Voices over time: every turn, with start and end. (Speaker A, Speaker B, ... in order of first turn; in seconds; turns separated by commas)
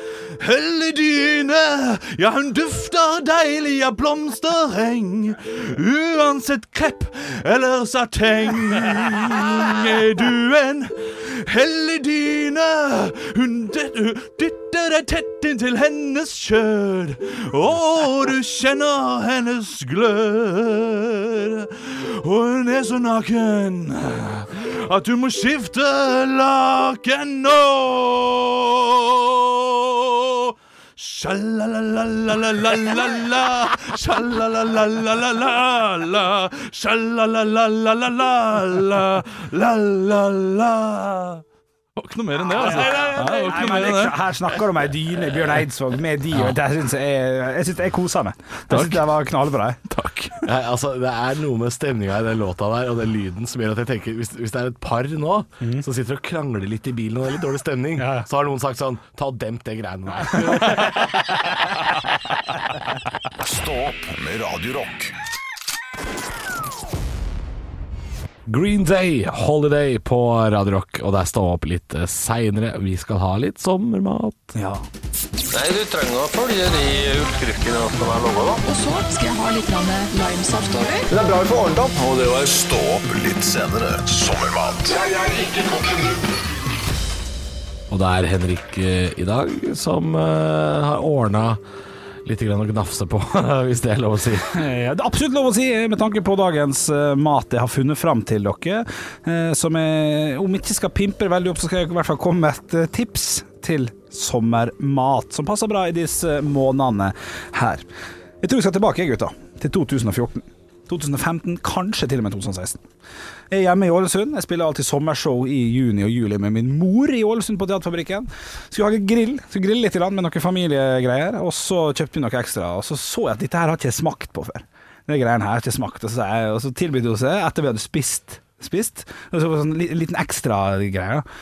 Speaker A: 0.3-41.4, Speaker A: 42.0-44.3, Speaker B: 42.5-49.8, Speaker C: 42.6-43.4, Speaker A: 48.7-49.1, Speaker A: 49.9-50.5, Speaker C: 50.4-61.8, Speaker B: 55.6-55.8, Speaker B: 58.0-58.2, Speaker B: 60.4-60.8, Speaker D: 63.4-65.2, Speaker C: 68.5-74.5, Speaker B: 74.5-74.8, Speaker E: 75.5-78.6, Speaker F: 78.6-81.1, Speaker E: 81.1-82.2, Speaker D: 82.0-85.0, Speaker E: 84.9-86.3, Speaker C: 87.9-91.6, Speaker C: 92.2-94.5, Speaker B: 94.5-107.8, Speaker B: 108.4-112.8, Speaker B: 113.5-131.2